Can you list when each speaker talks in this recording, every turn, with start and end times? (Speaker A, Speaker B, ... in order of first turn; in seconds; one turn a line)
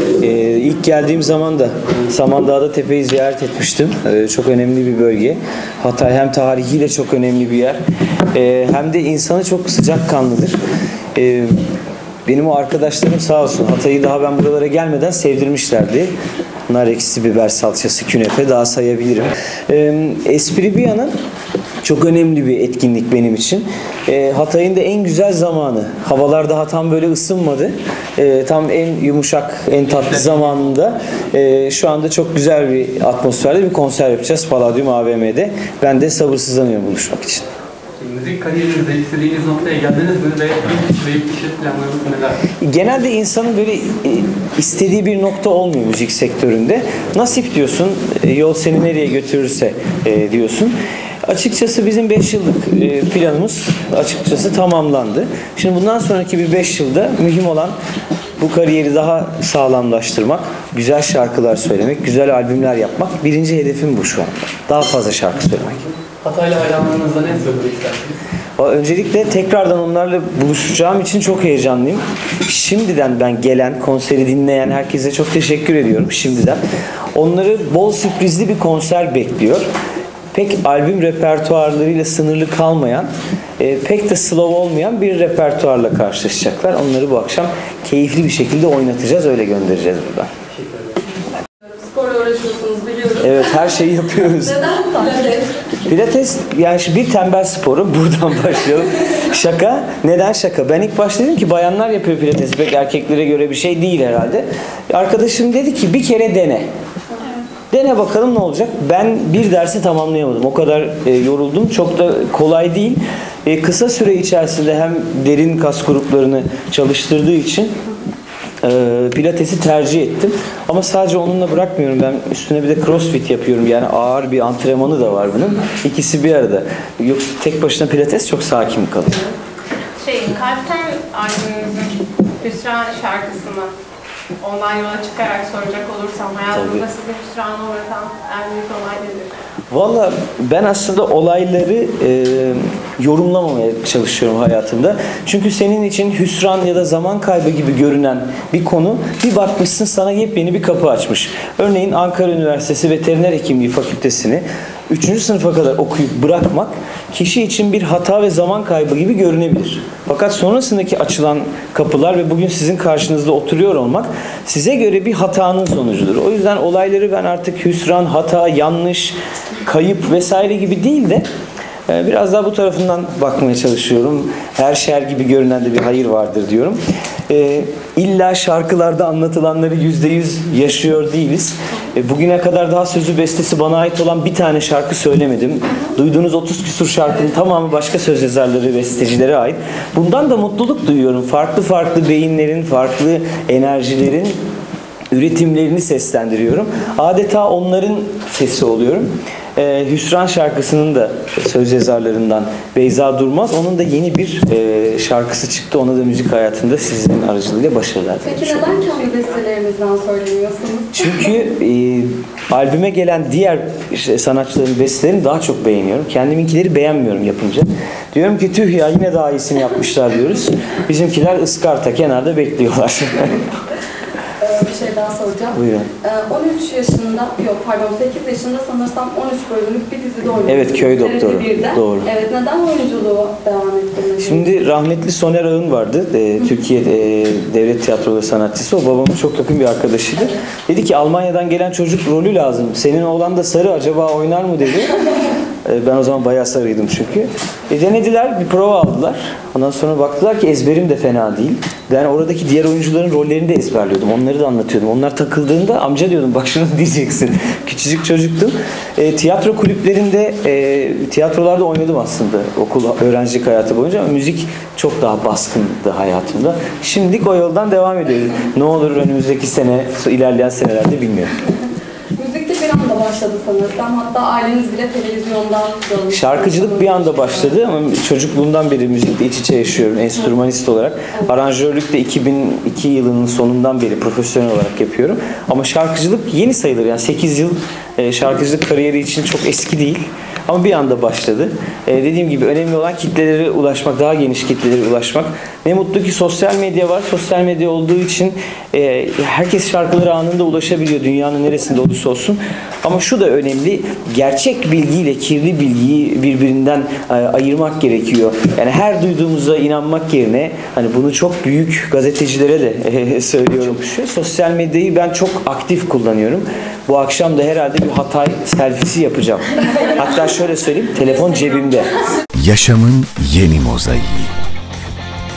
Speaker A: 0.2-7.8
Speaker A: 8.3-10.6
Speaker A: 11.2-11.5
Speaker A: 12.3-16.1
Speaker A: 16.7-21.1
Speaker A: 21.8-37.5
Speaker B: 29.8-30.9
Speaker B: 38.0-42.4
Speaker A: 42.6-57.8
Speaker A: 58.4-65.8
Speaker B: 66.2-68.2
Speaker A: 68.6-76.6
Speaker A: 77.2-79.7
Speaker A: 80.3-83.1
Speaker A: 83.6-90.3
Speaker B: 90.5-91.0
Speaker C: 91.7-95.6
Speaker A: 93.2-94.6
Speaker A: 95.8-106.7
Speaker A: 107.7-117.7
Speaker A: 118.6-129.2
Speaker D: 130.0-133.7
Speaker D: 134.4-139.3
Speaker A: 136.5-136.8
Speaker A: 139.7-171.3
Speaker A: 171.9-176.8
Speaker A: 177.3-194.4
Speaker A: 195.1-208.8
Speaker C: 208.2-211.1
Speaker A: 210.9-223.4
Speaker C: 224.4-234.5
Speaker A: 225.5-225.9
Speaker A: 230.5-232.1
Speaker A: 234.2-271.3
Speaker C: 272.2-277.6
Speaker A: 276.1-321.9
Speaker E: 322.4-324.3